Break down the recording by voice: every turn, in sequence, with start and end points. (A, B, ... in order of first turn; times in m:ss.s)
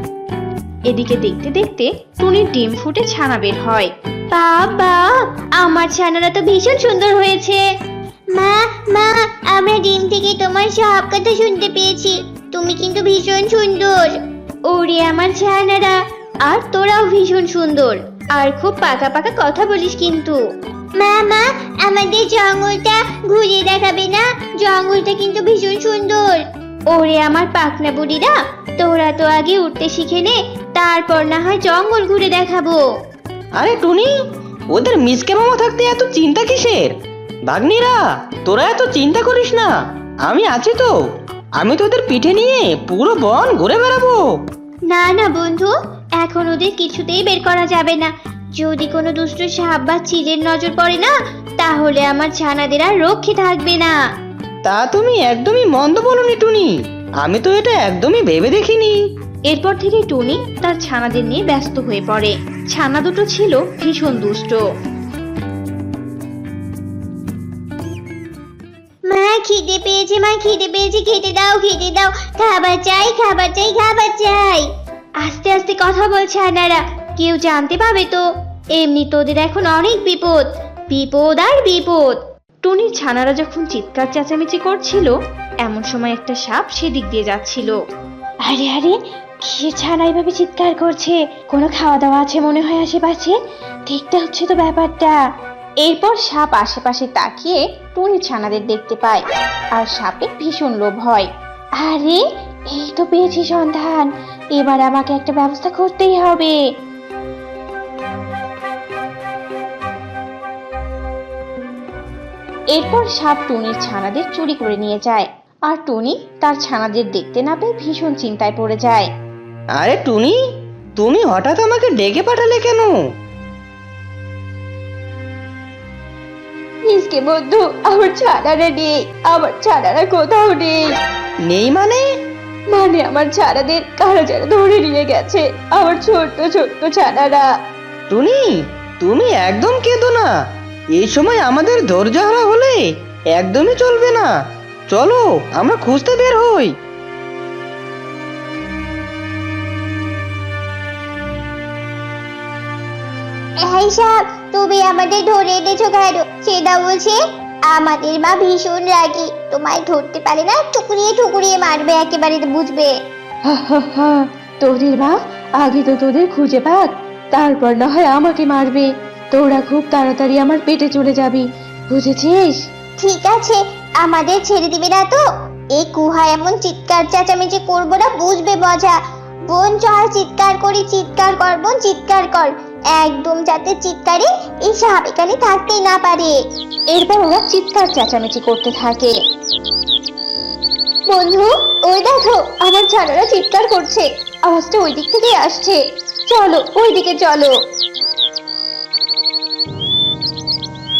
0:00.8-0:07.6 A
0:08.4-0:08.9 B
0:09.0-0:11.7 A
0:09.7-0:14.0 B
0:12.9-0:13.7 A
0:14.7-0:20.4 A
0:21.0-0:23.9 B
0:23.1-0:26.3 A
0:26.9-0:32.8 A
0:33.6-0:34.1 C
0:34.8-0:36.8 C
0:37.5-0:38.0 C
0:38.5-0:39.7 C
0:40.3-0:40.9 C
0:41.6-0:44.2 C
0:44.9-0:54.0 A
0:54.7-0:56.7 C
0:57.2-0:58.9 C
0:59.5-1:04.6 A
1:09.2-1:14.6 A
1:09.2-1:10.2 B
1:13.8-1:14.3 B
1:15.2-1:18.2 A
1:18.7-1:27.8 A
1:28.4-1:35.2 A
1:35.8-1:46.6 A
1:52.7-1:59.1 A
1:59.8-2:00.3 C
2:01.0-2:02.9 C
2:06.8-2:10.9 A
2:11.5-2:12.0 C
2:12.7-2:17.5 A
2:18.1-2:18.5 C
2:19.0-2:20.2 C
2:21.0-2:22.8 C
2:23.4-2:24.2 C
2:24.9-2:26.7 C
2:33.6-2:37.2 B
2:37.7-2:42.9 B
2:43.4-2:52.6 A
2:53.0-2:55.2 B
2:55.8-2:59.0 B
2:59.5-3:06.3 B
3:03.1-3:03.4 A
3:04.8-3:05.3 A
3:06.9-3:09.2 A
3:11.1-3:17.6 A